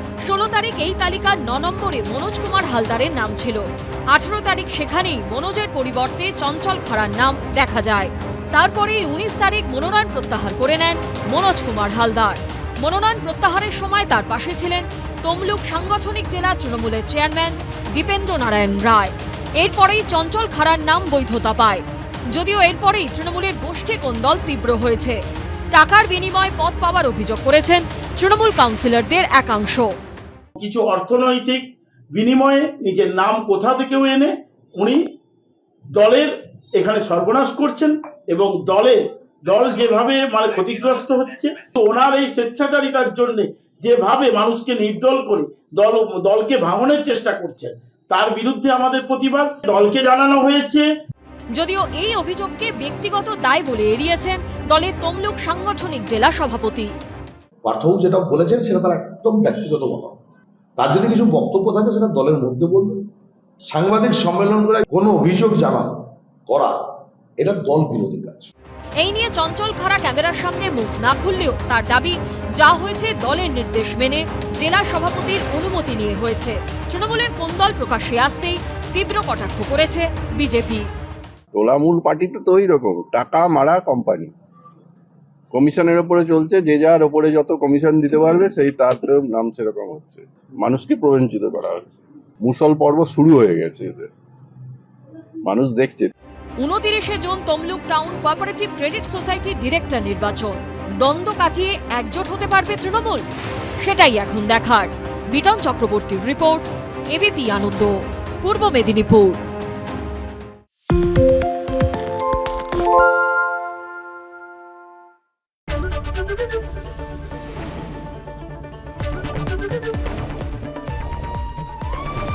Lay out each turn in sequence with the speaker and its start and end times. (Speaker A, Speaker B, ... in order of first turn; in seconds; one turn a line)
Speaker A: 0.2-25.2
Speaker A: 25.7-29.9
Speaker B: 30.6-35.0
Speaker B: 35.9-50.9
Speaker A: 51.5-56.9
Speaker C: 57.6-60.1
Speaker C: 60.8-63.0
Speaker C: 63.7-66.8
Speaker C: 67.4-68.5
Speaker A: 69.0-80.9
Speaker D: 81.5-84.3
Speaker D: 85.5-94.1
Speaker D: 95.5-96.1
Speaker A: 96.6-103.2
Speaker A: 103.8-109.4